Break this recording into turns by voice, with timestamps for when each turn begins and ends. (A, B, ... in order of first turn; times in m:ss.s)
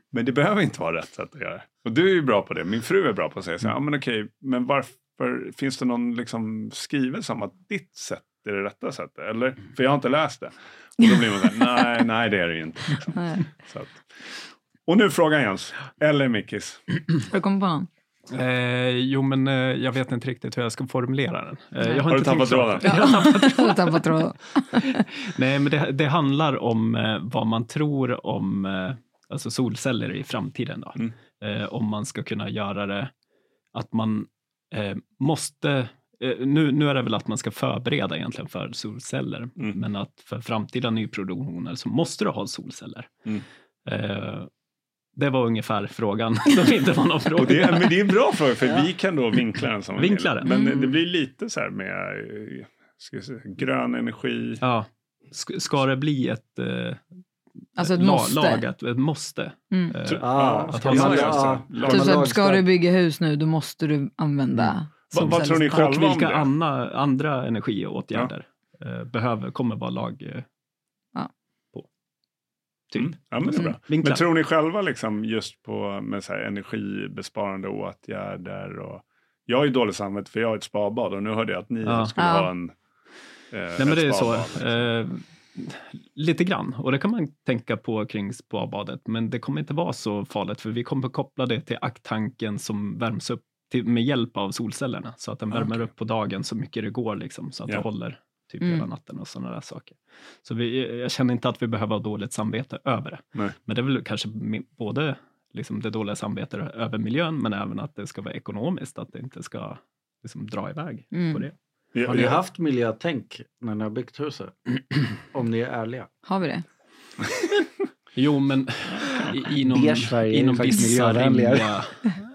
0:00.1-0:14.0 A
0:13.1-0:13.4 B
0:14.9-0:16.8 A
0:17.3-0:17.9 B
0:18.3-0:24.0 C
0:22.1-0:23.0 A
0:22.8-0:25.0 B
0:24.8-0:33.1 C
0:33.7-0:43.1 C
0:43.9-0:44.5 C
0:45.2-0:48.1 C
0:47.4-0:54.6 A
0:50.0-0:50.5 C
0:50.4-0:50.9 B
0:54.6-0:57.0 C
0:57.8-0:58.6 B
0:57.8-1:01.5 C
0:59.7-1:00.0 B
1:00.0-1:02.2 A
1:00.2-1:02.7 D
1:01.8-1:05.9 B
1:05.1-1:06.5 A
1:05.2-1:10.4 C
1:12.9-1:14.2 C
1:13.0-1:22.7 A
1:21.8-1:22.1 C
1:22.2-1:22.5 B
1:23.5-1:24.9 A
1:23.8-1:51.5 C
1:51.1-1:51.4 B
1:51.9-1:52.4 A
1:52.0-1:54.6 D
1:55.2-1:56.1 D
1:56.3-1:56.6 B
1:58.1-2:02.1 C
1:58.9-1:59.4 A
1:59.6-2:01.8 D